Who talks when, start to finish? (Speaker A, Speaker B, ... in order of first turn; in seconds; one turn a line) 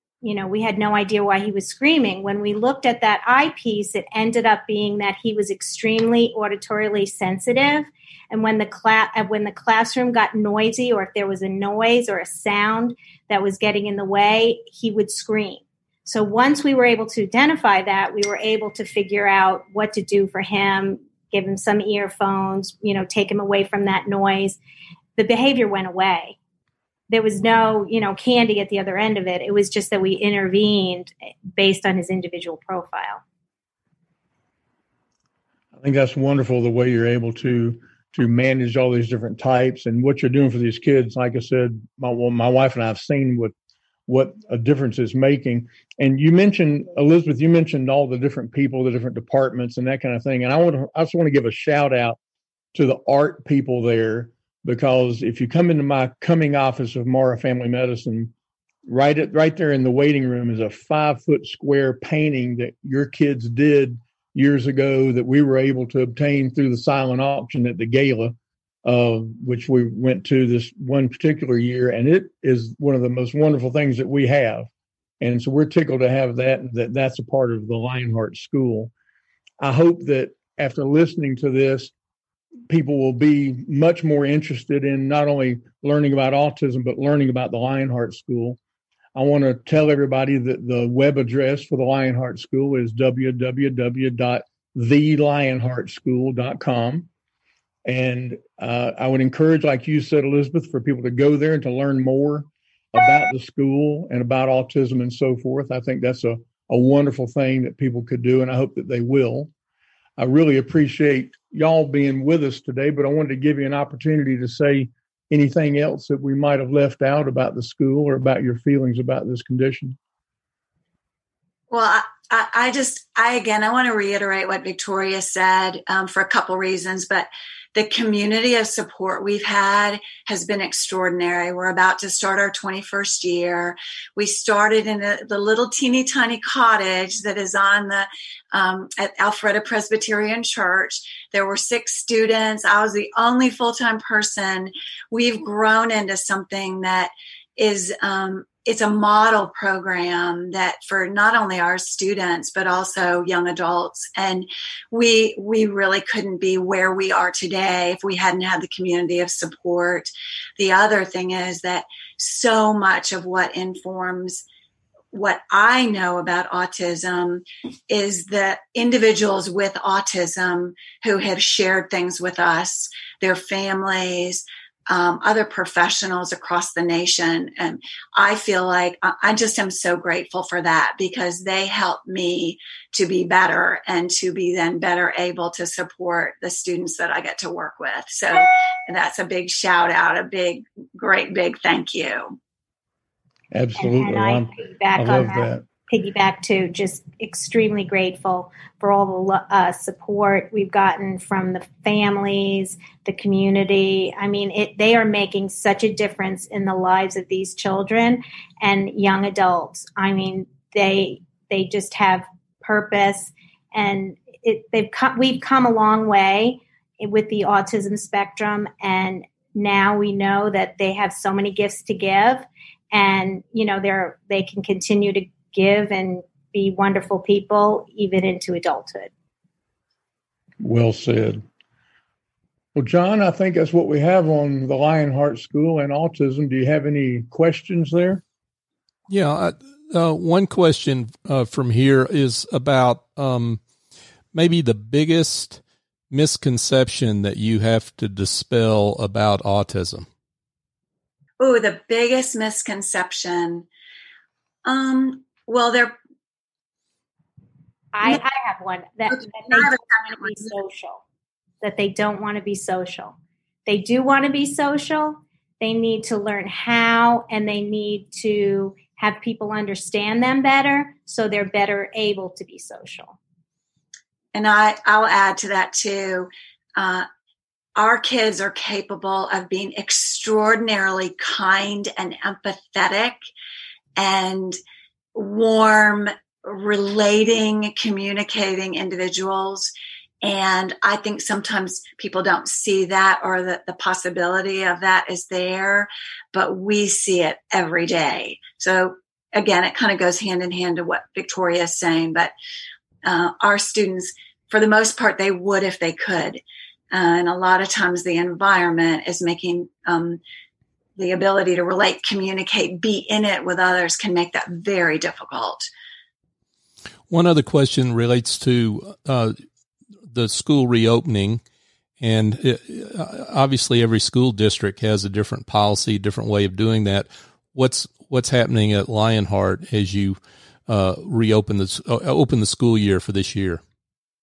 Speaker A: 0.2-24.6
Speaker A: 25.2-26.4
Speaker A: 27.1-33.2
Speaker B: 35.8-43.5
Speaker B: 44.1-52.2
Speaker B: 52.7-58.3
Speaker B: 58.9-74.7
Speaker B: 75.2-78.9
Speaker B: 79.6-81.9
Speaker B: 82.7-88.6
Speaker B: 89.1-97.1
Speaker B: 97.8-109.5
Speaker B: 110.2-120.0
Speaker C: 121.7-164.4
Speaker C: 165.1-192.4
Speaker B: 193.5-195.6
Speaker A: 193.8-229.1
Speaker B: 230.6-231.4
Speaker B: 232.7-238.2
Speaker D: 239.1-243.6
Speaker D: 244.3-250.1
Speaker C: 251.4-253.7
Speaker C: 254.7-255.9
Speaker A: 257.9-261.0
Speaker C: 259.1-260.5
Speaker A: 261.6-263.1
Speaker A: 263.7-273.2
Speaker C: 274.3-277.1
Speaker C: 277.8-283.1
Speaker C: 284.0-284.6
Speaker C: 285.1-289.7
Speaker C: 290.2-302.3
Speaker C: 303.0-310.2
Speaker C: 311.0-315.7
Speaker D: 317.1-319.4
Speaker D: 320.1-321.4
Speaker D: 322.0-333.6